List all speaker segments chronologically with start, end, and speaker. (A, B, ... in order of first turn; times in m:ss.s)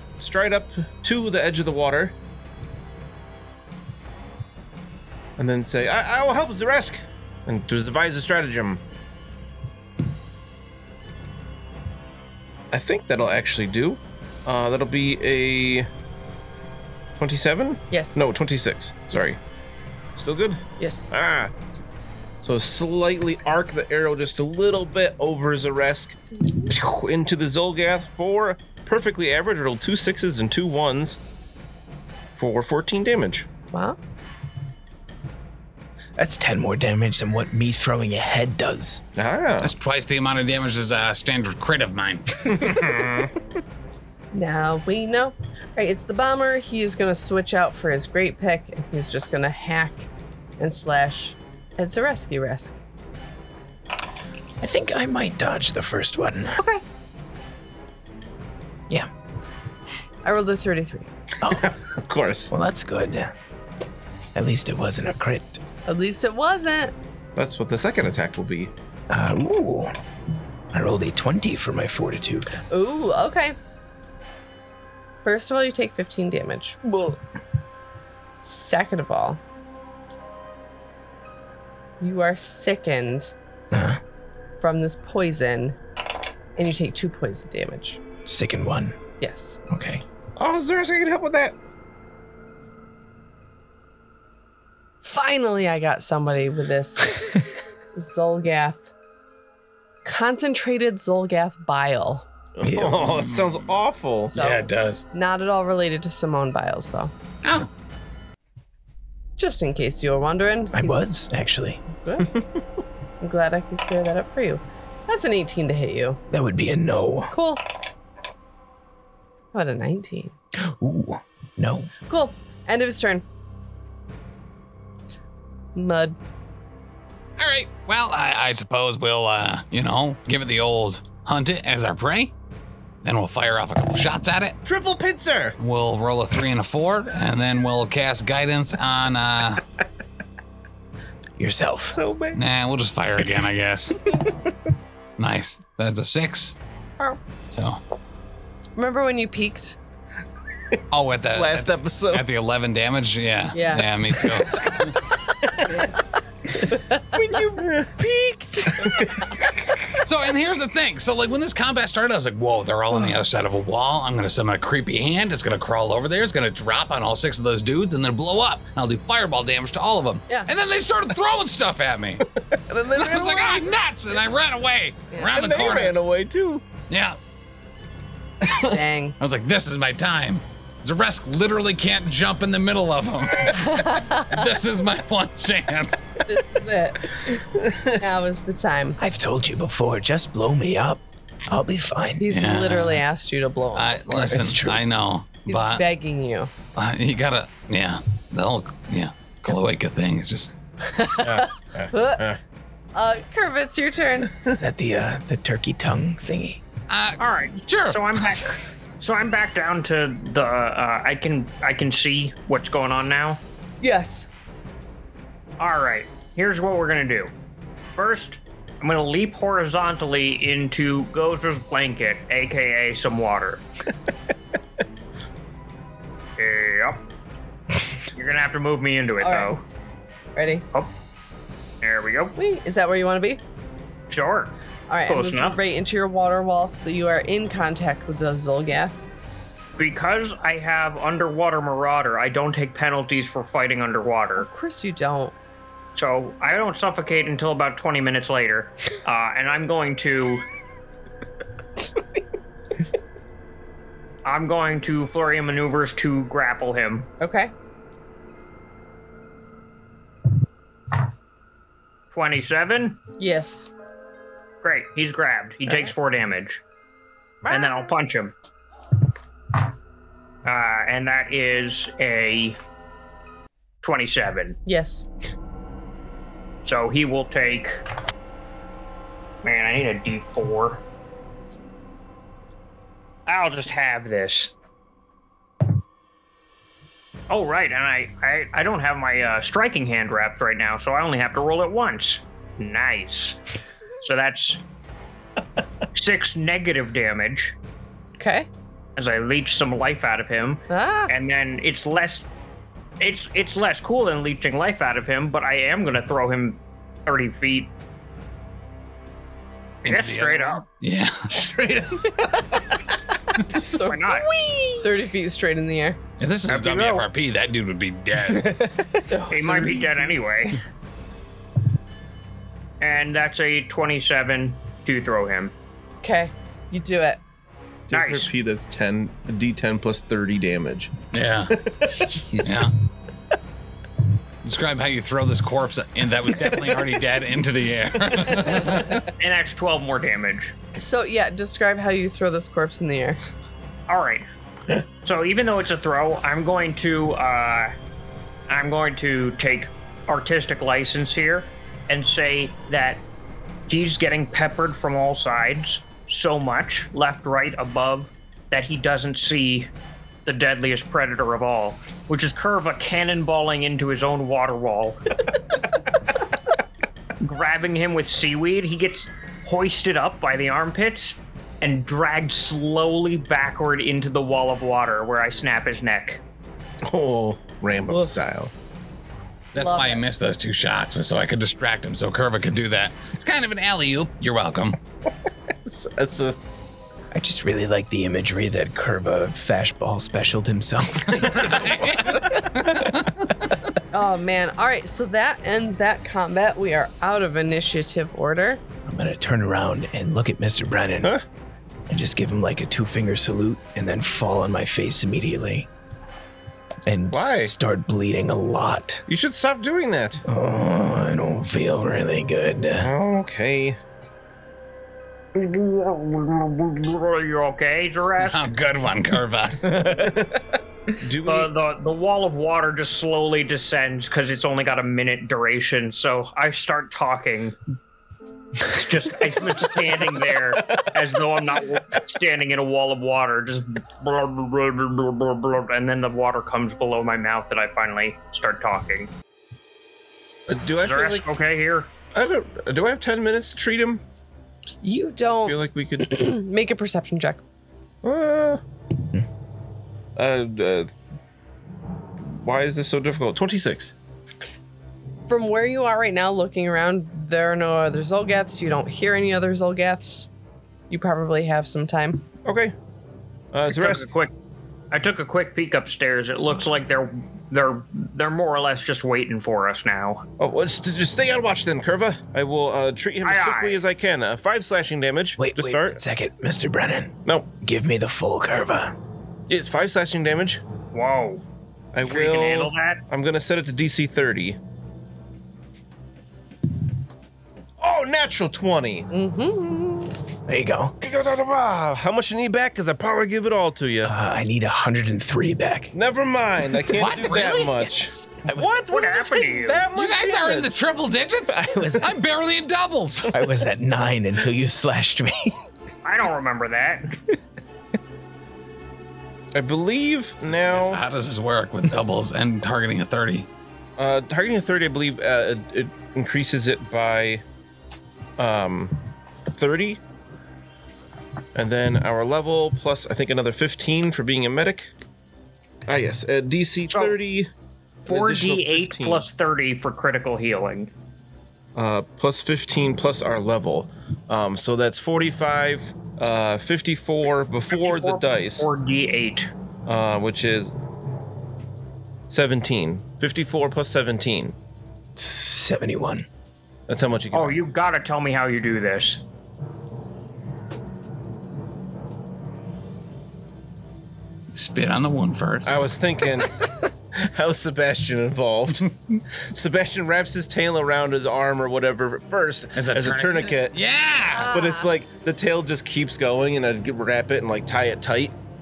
0:00.2-0:02.1 A
0:05.4-0:08.8 A
0:12.7-0:15.9 A
0:17.2-0:19.4 A
0:17.9-0:18.2 B
0:19.1-0:19.6 B
0:20.2-0:21.5 A
0:20.8-0:21.1 B
0:22.4-0:31.2 A
0:32.4-0:33.5 A
0:33.7-0:34.0 B
0:36.2-0:39.0 C
0:39.2-0:39.7 A
0:39.6-0:42.3 D
0:42.4-0:43.3 A
0:44.3-0:52.8 B
0:54.6-0:56.6 C
0:56.6-0:56.8 B
1:00.2-1:01.1 B
1:01.4-1:01.7 C
1:01.4-1:02.5 A
1:02.5-1:03.3 C
1:04.4-1:05.6 C
1:05.9-1:06.9 B
1:07.4-1:08.7 A
1:09.1-1:10.0 C
1:10.7-1:12.5 C
1:12.5-1:13.6 B
1:15.2-1:16.9 B
1:18.4-1:19.4 B
1:22.0-1:23.3 B
1:23.7-1:24.0 C
1:24.6-1:25.8 B
1:26.6-1:28.0 B
1:28.2-1:29.0 C
1:29.2-1:29.6 B
1:29.7-1:30.0 C
1:30.4-1:31.6 A
1:35.0-1:37.4 B
1:37.9-1:38.9 B
1:40.0-1:42.3 B
1:42.6-1:44.3 A
1:42.6-1:43.2 C
1:43.0-1:43.6 D
1:44.3-1:45.0 D
1:44.3-1:47.1 B
1:47.4-1:47.7 D
1:49.4-1:51.0 B
1:50.7-1:51.8 C
1:52.0-1:52.3 B
1:53.2-1:56.2 B
1:56.3-1:57.3 C
1:57.3-1:57.6 B
1:59.5-2:00.3 B
2:00.6-2:01.9 C
2:02.1-2:03.2 B
2:05.8-2:06.2 B
2:07.4-2:12.3 D
2:13.0-2:14.6 D
2:14.6-2:15.6 A
2:15.6-2:19.6 D
2:21.4-2:22.0 C
2:21.9-2:22.4 A
2:22.3-2:24.2 D
2:25.2-2:26.6 D
2:27.5-2:27.8 D
2:28.8-2:29.8 B
2:30.9-2:35.0 D
2:31.3-2:32.2 A
2:33.5-2:33.9 B
2:36.6-2:37.0 B
2:37.1-2:38.0 A
2:38.0-2:38.9 C
2:38.8-2:39.3 A
2:40.0-2:52.3 D
2:52.5-2:53.7 A
2:52.9-2:56.0 D
2:55.2-2:56.6 A
2:56.9-2:57.2 D
2:58.4-2:58.8 A
2:58.6-2:59.2 B
2:59.2-3:06.2 D
3:03.6-3:04.3 B
3:06.2-3:07.2 B
3:07.9-3:09.0 B
3:09.0-3:12.3 C
3:12.2-3:14.0 B
3:12.3-3:13.0 D
3:13.7-3:15.8 D
3:14.1-3:14.8 C
3:15.5-3:16.5 B
3:16.8-3:20.5 D
3:20.9-3:22.3 B
3:21.2-3:22.4 A
3:22.9-3:24.3 B
3:24.4-3:26.6 C
3:26.9-3:28.4 D
3:27.2-3:33.4 E
3:33.8-3:34.3 B
3:35.6-3:37.3 E
3:38.0-3:43.6 E
3:46.4-3:47.0 E
3:48.1-3:49.6 E
3:49.2-3:49.5 B
3:50.4-3:50.6 B
3:51.8-3:52.4 E
3:52.4-3:53.4 B
3:54.1-3:54.5 E
3:54.9-3:58.9 B
3:55.1-3:55.6 E
3:59.8-4:04.5 E
4:04.4-4:05.3 B
4:06.0-4:10.4 E
4:14.2-4:17.1 E
4:17.2-4:17.5 B
4:22.1-4:23.0 E
4:23.2-4:23.7 B
4:24.6-4:26.6 E
4:27.4-4:27.9 B
4:27.5-4:28.3 E
4:30.4-4:32.6 E
4:33.8-4:34.6 E
4:34.7-4:35.0 B
4:36.6-4:37.8 E
4:39.4-4:40.8 E
4:43.3-4:44.5 E
4:47.3-4:53.4 E
4:54.0-4:54.6 E
4:55.9-4:57.6 E
4:58.2-4:58.5 B
4:59.0-5:02.3 E
5:00.7-5:01.1 B
5:03.0-5:07.7 E
5:09.8-5:10.6 E
5:09.8-5:11.3 D
5:11.3-5:12.4 A
5:13.5-5:14.1 B
5:13.8-5:14.3 E
5:14.5-5:14.7 A
5:14.8-5:16.0 B
5:16.2-5:18.7 D
5:16.5-5:17.1 E
5:18.4-5:18.8 C
5:19.0-5:19.7 B
5:19.3-5:20.6 E
5:22.8-5:25.5 E
5:26.0-5:27.2 B
5:27.9-5:31.0 A
5:27.9-5:28.3 E
5:31.1-5:31.6 D
5:31.5-5:32.2 A
5:32.4-5:32.7 D
5:34.4-5:39.1 D
5:39.1-5:40.6 E
5:40.7-5:43.2 B
5:43.9-5:44.3 E
5:45.0-5:47.7 E
5:48.5-5:53.0 E
5:53.7-5:59.7 E
6:00.3-6:05.0 E
6:07.2-6:16.2 E
6:16.8-6:18.5 A
6:17.9-6:18.2 B
6:19.5-6:20.0 B
6:19.5-6:24.8 D
6:25.6-6:26.4 A
6:27.1-6:32.4 C
6:31.2-6:33.1 D
6:33.9-6:38.6 B
6:38.8-6:41.2 C
6:41.9-6:45.7 C
6:46.8-6:49.0 C
6:47.1-6:47.5 A
6:49.1-6:50.2 A
6:50.2-6:52.9 C
6:52.8-6:53.8 A
6:55.3-6:58.5 E
6:58.2-6:59.8 D
6:59.6-7:00.3 C
7:01.0-7:01.5 A
7:01.2-7:07.6 E
7:08.6-7:19.1 E
7:20.5-7:21.3 A
7:20.8-7:21.9 E
7:22.1-7:24.0 A
7:24.8-7:27.4 B
7:25.4-7:26.2 A
7:28.0-7:28.6 A
7:30.2-7:30.9 A
7:32.2-7:33.9 A
7:35.3-7:40.3 B
7:40.9-7:42.3 B
7:42.4-7:42.7 A
7:43.5-7:44.1 A
7:43.7-7:44.3 E
7:44.9-7:50.2 E
7:50.4-7:56.0 A
7:53.2-7:53.8 E
7:55.4-7:59.0 C
7:59.5-8:00.6 A
8:00.9-8:01.4 E
8:01.9-8:04.6 A
8:02.0-8:03.0 E
8:07.8-8:09.1 A
8:09.1-8:10.1 B
8:10.5-8:11.0 C
8:11.0-8:14.1 A
8:14.0-8:15.9 C
8:15.9-8:20.7 A
8:16.9-8:17.7 D
8:16.9-8:18.8 C
8:18.9-8:19.9 E
8:20.0-8:23.4 D
8:21.5-8:22.1 C
8:23.3-8:25.6 C
8:26.0-8:27.1 E
8:29.6-8:31.0 A
8:30.7-8:33.5 D
8:34.0-8:37.4 A
8:38.4-8:39.0 A
8:39.5-8:40.0 A
8:41.6-8:44.9 A
8:45.9-8:47.5 A
8:46.9-8:47.2 E
8:48.0-8:50.9 E
8:48.1-8:49.3 A
8:51.7-8:58.7 A
8:57.7-8:59.5 E
8:59.9-9:00.7 A
9:02.3-9:04.6 A
9:05.2-9:06.3 C
9:06.9-9:07.6 A
9:07.3-9:09.2 E
9:14.5-9:15.7 D
9:15.6-9:16.6 A
9:17.1-9:23.8 A
9:22.7-9:24.5 D
9:24.3-9:24.9 B
9:24.5-9:28.3 A